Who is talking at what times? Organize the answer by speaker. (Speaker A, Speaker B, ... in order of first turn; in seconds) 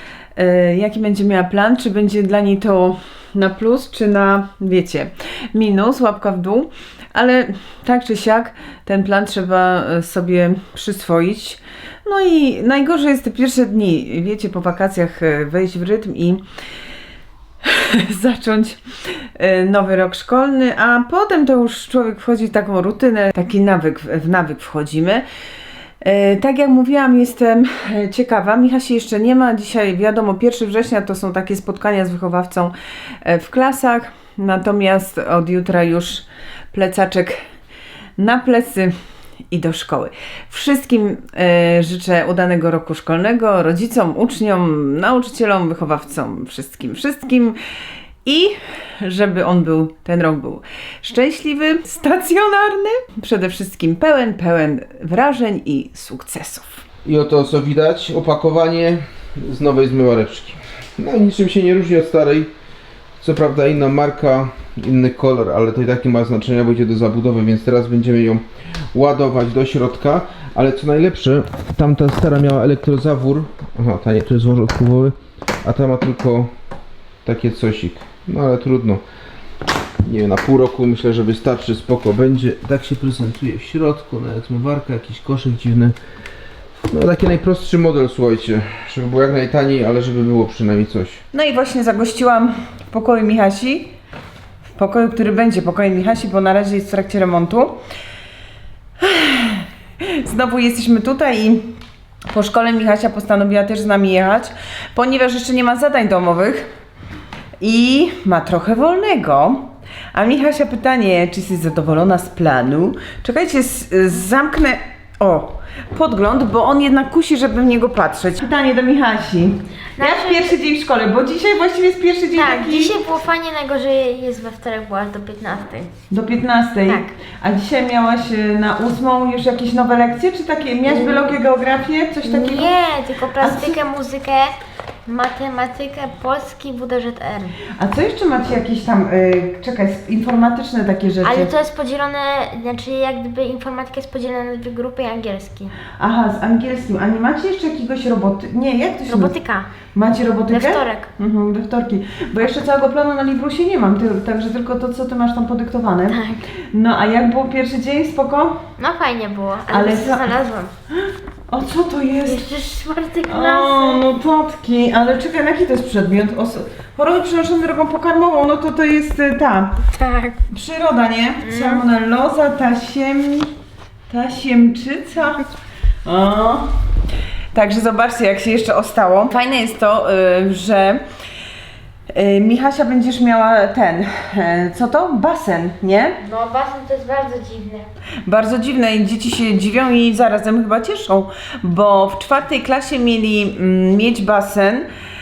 Speaker A: 0.4-16.4, 17.6-25.2, 26.0-37.4, 38.2-38.9, 39.5-47.6, 48.2-56.8, 91.3-93.9, 94.8-97.8, 99.0-101.8, 102.3-106.7, 107.6-123.0, 126.1-132.7, 133.4-133.8, 137.8-141.5, 146.0-149.4, 149.9-156.2, 156.7-158.6, 159.7-160.3, 161.5-162.6, 163.2-169.9, 170.5-173.5, 174.1-175.5, 176.1-176.7, 177.5-181.0, 182.1-186.2, 188.2-194.9
Speaker B: 57.0-62.5, 63.2-76.5, 77.2-79.0, 80.0-86.0, 86.9-91.2
Speaker C: 120.0-120.6, 122.4-125.9, 130.9-131.3, 132.2-137.6, 141.2-145.8, 149.1-149.7, 150.5-151.1, 156.1-156.4, 158.8-160.7, 162.3-164.0, 169.9-170.4, 171.4-171.8, 186.2-187.9